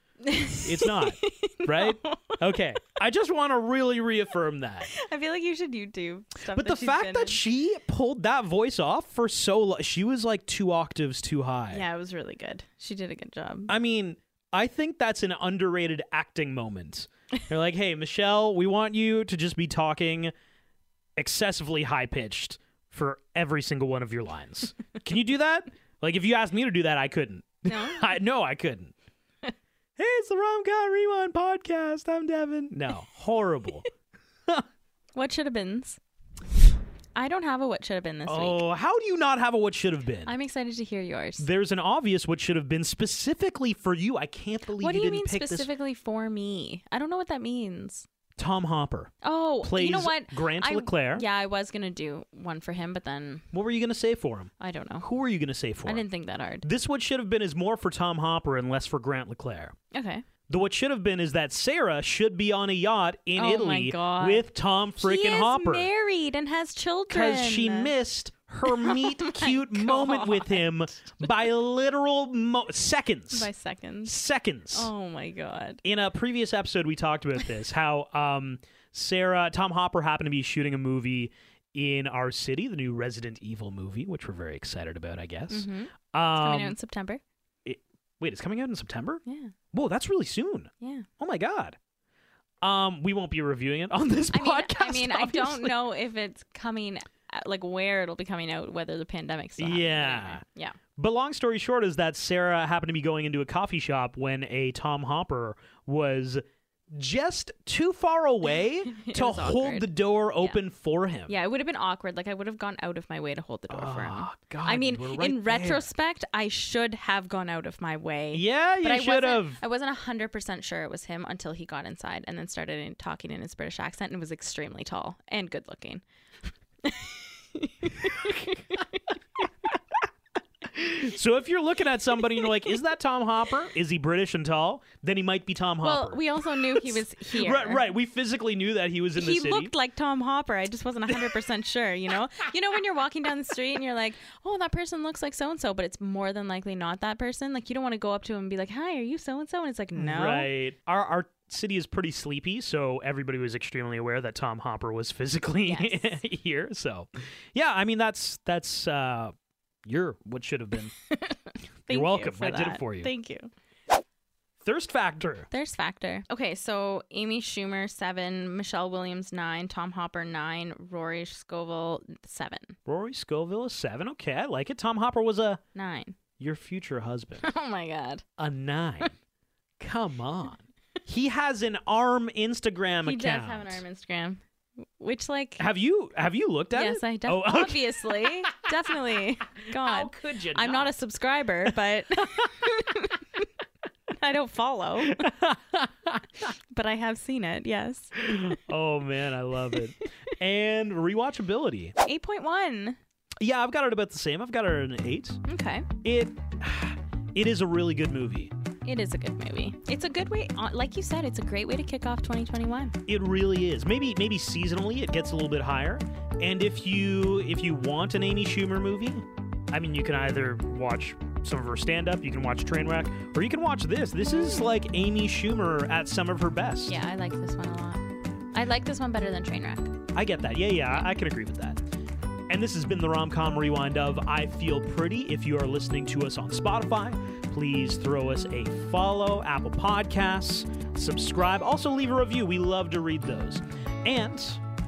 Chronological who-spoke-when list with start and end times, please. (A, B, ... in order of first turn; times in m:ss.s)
0:00.2-0:02.4 A
0:00.5-0:04.9 B
0:04.9-0:07.4 A
0:06.5-0:11.8 B
0:11.7-0:13.7 A
0:13.7-0:20.3 B
0:21.2-0:28.9 B
0:27.7-0:28.1 A
0:30.0-0:33.9 B
0:35.1-0:36.0 A
0:37.1-0:38.6 A
0:38.3-0:40.3 B
0:40.2-0:41.4 A
0:41.4-0:45.7 B
0:44.8-0:48.1 A
0:48.4-0:51.2 B
0:49.2-0:53.4 A
0:53.5-0:56.0 B
0:54.6-0:55.0 A
0:55.8-0:56.6 A
0:56.6-0:59.7 B
0:59.9-1:00.2 A
1:00.5-1:05.9 B
1:03.4-1:04.4 A
1:05.0-1:07.9 A
1:07.1-1:13.5 B
1:08.6-1:10.6 A
1:13.3-1:14.1 A
1:14.0-1:14.9 B
1:14.7-1:15.8 A
1:15.8-1:26.8 B
1:25.5-1:27.2 A
1:27.6-1:29.2 B
1:29.2-1:29.5 A
1:29.7-1:31.8 B
1:30.8-1:31.1 A
1:32.6-1:35.9 B
1:34.3-1:40.8 A
1:39.6-1:40.4 B
1:41.0-1:46.4 B
1:46.9-1:51.3 B
1:48.9-1:50.6 A
1:51.3-2:06.0 A
1:53.7-1:55.9 B
1:58.3-1:59.6 B
2:06.8-2:09.0 A
2:08.0-2:08.3 B
2:10.7-2:19.7 B
2:12.2-2:12.8 A
2:15.8-2:17.8 A
2:19.2-2:30.5 A
2:29.9-2:39.3 B
2:35.6-2:36.2 A
2:39.8-2:40.9 B
2:41.1-2:43.5 A
2:41.9-2:43.1 B
2:44.6-2:45.5 B
2:45.5-2:52.8 A
2:52.9-2:55.6 B
2:55.7-2:56.2 A
2:56.4-2:57.5 B
2:57.4-2:58.2 A
2:58.4-2:59.1 B
2:59.8-3:03.8 B
3:03.0-3:05.6 A
3:05.6-3:08.6 B
3:06.7-3:13.4 A
3:09.7-3:10.9 B
3:12.2-3:12.5 B
3:14.1-3:15.3 A
3:15.0-3:16.5 B
3:16.7-3:18.5 A
3:18.2-3:21.9 B
3:22.0-3:23.0 A
3:23.4-3:25.4 B
3:25.5-3:25.9 A
3:26.0-3:28.5 B
3:28.8-3:33.0 A
3:33.1-3:47.0 B
3:44.2-3:44.7 A
3:46.8-3:50.0 A
3:50.1-3:51.8 B
3:52.5-4:04.6 B